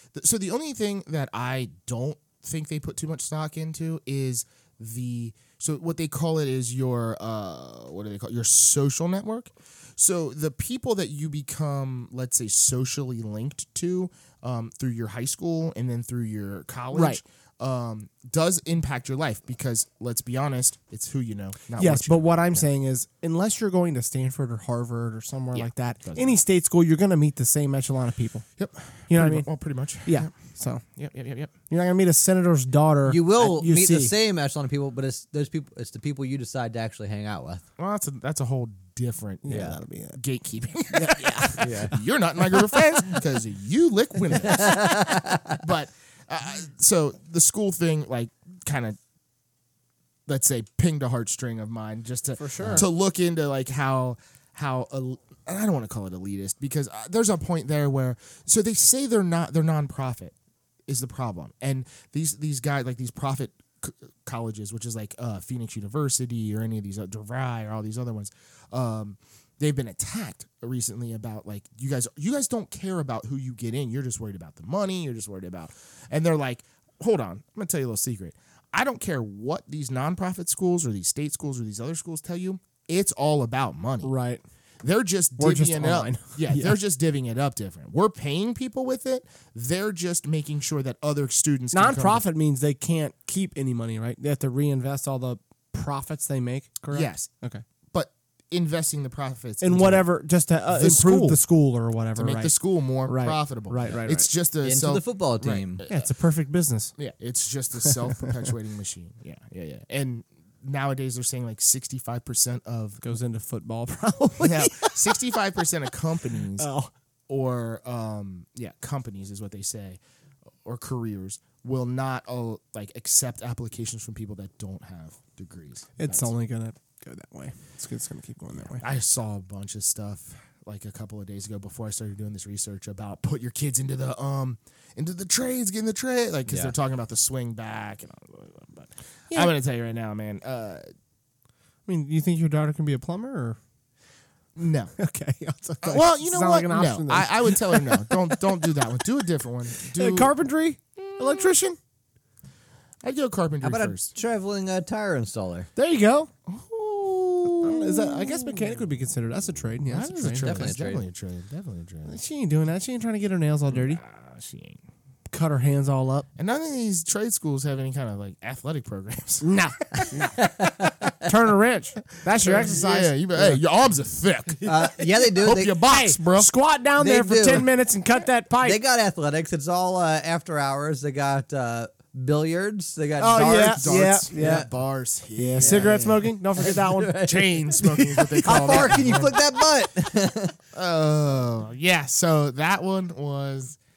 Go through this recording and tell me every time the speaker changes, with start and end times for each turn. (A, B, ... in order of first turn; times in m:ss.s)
0:00.1-0:22.7 A
0:16.9-0:17.2 B
0:21.8-0:28.4 B
0:25.5-0:26.4 A
0:28.6-0:30.3 A
0:29.1-0:29.5 B
0:30.0-0:30.8 B
0:31.0-0:31.5 A
0:31.7-0:34.1 B
0:33.1-0:37.6 C
0:37.8-0:49.0 A
0:39.4-0:40.2 B
0:39.5-0:39.8 C
0:40.9-0:41.8 B
0:41.6-0:42.0 C
0:42.5-0:42.8 B
0:44.4-0:45.6 C
0:50.3-1:00.4 A
0:52.4-0:52.9 B
1:00.9-1:24.1 A
1:24.0-1:24.4 B
1:24.8-1:32.2 A
1:25.4-1:26.8 B
1:31.7-1:37.6 B
1:36.9-1:37.3 A
1:37.9-1:40.1 A
1:39.6-1:42.5 B
1:40.7-1:41.4 A
1:42.2-1:46.1 A
1:43.1-1:44.3 B
1:44.6-1:45.8 C
1:45.9-1:47.0 B
1:47.0-1:53.0 A
1:53.0-1:55.3 B
1:54.4-1:56.7 A
1:56.6-1:56.9 B
1:57.3-2:00.0 A
2:00.6-2:06.3 A
2:06.0-2:08.9 B
2:08.6-2:20.8 A
2:16.5-2:16.7 C
2:21.9-2:23.6 B
2:24.6-2:24.9 A
2:25.0-2:28.9 B
2:25.8-2:30.3 A
2:29.8-2:31.8 B
2:31.0-2:31.5 A
2:33.0-2:34.1 A
2:33.6-2:35.7 C
2:35.8-2:36.3 B
2:36.5-2:38.9 A
2:37.6-2:40.7 B
2:39.9-2:42.2 A
2:40.3-2:41.0 C
2:42.1-2:44.0 B
2:43.7-2:44.8 A
2:45.3-2:46.3 B
2:46.4-2:50.3 A
2:49.4-2:50.4 B
2:50.4-2:51.2 C
2:51.2-2:53.6 B
2:52.3-2:56.5 A
2:54.6-2:55.8 C
2:55.8-2:58.8 B
2:57.0-2:57.7 C
2:58.6-3:04.7 C
3:03.2-3:04.7 B
3:03.4-3:06.3 A
3:05.4-3:07.2 B
3:05.6-3:10.6 C
3:07.2-3:09.5 A
3:08.3-3:08.9 B
3:10.7-3:13.8 A